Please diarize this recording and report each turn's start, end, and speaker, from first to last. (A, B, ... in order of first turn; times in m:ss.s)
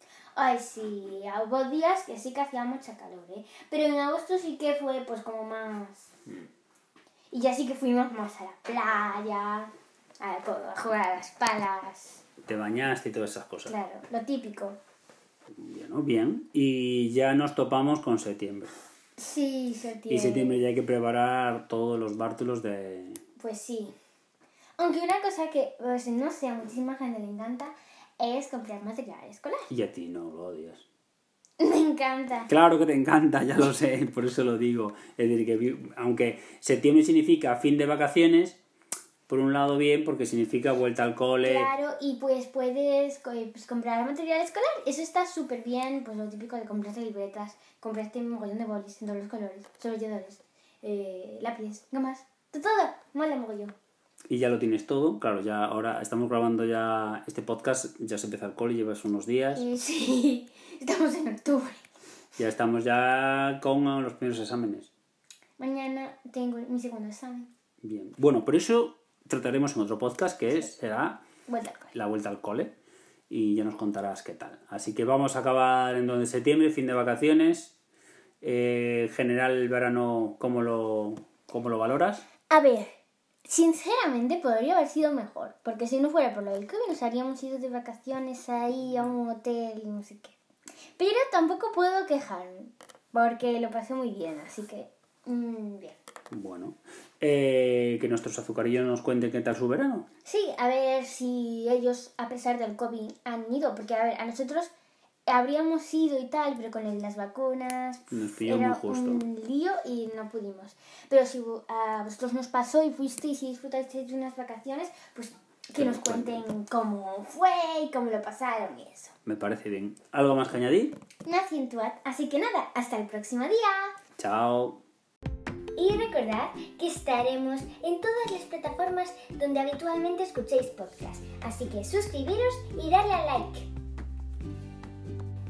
0:00.4-0:06.1 A
0:07.3-0:12.2 A
0:12.4-0:13.8 B
0:13.7-0:14.8 A
0:15.6-0:18.7 B
0:19.2-0:20.6 A
0:20.1-0:23.2 B
0:23.4-0:23.9 A
0:24.8-0:29.7 A
0:29.7-0:30.8 B
0:31.6-0:32.5 A
0:32.5-0:38.6 B
0:39.3-0:41.7 B
0:41.4-0:53.7 A
0:54.3-0:59.6 B
0:59.5-1:01.8 A
1:02.4-1:04.9 B
1:05.6-1:07.5 A
1:07.8-1:11.2 B
1:11.5-1:11.9 A
1:11.9-1:12.7 B
1:13.3-1:17.8 B
1:18.4-1:22.2 B
1:22.5-1:22.9 A
1:23.5-1:30.4 A
1:31.0-1:36.0 A
1:36.3-1:40.1 B
1:40.3-1:44.7 A
1:45.3-1:59.1 A
1:48.1-1:49.2 B
1:55.8-1:56.4 B
1:59.2-2:01.0 B
2:01.2-2:03.9 A
2:04.2-2:04.8 B
2:05.8-2:13.7 A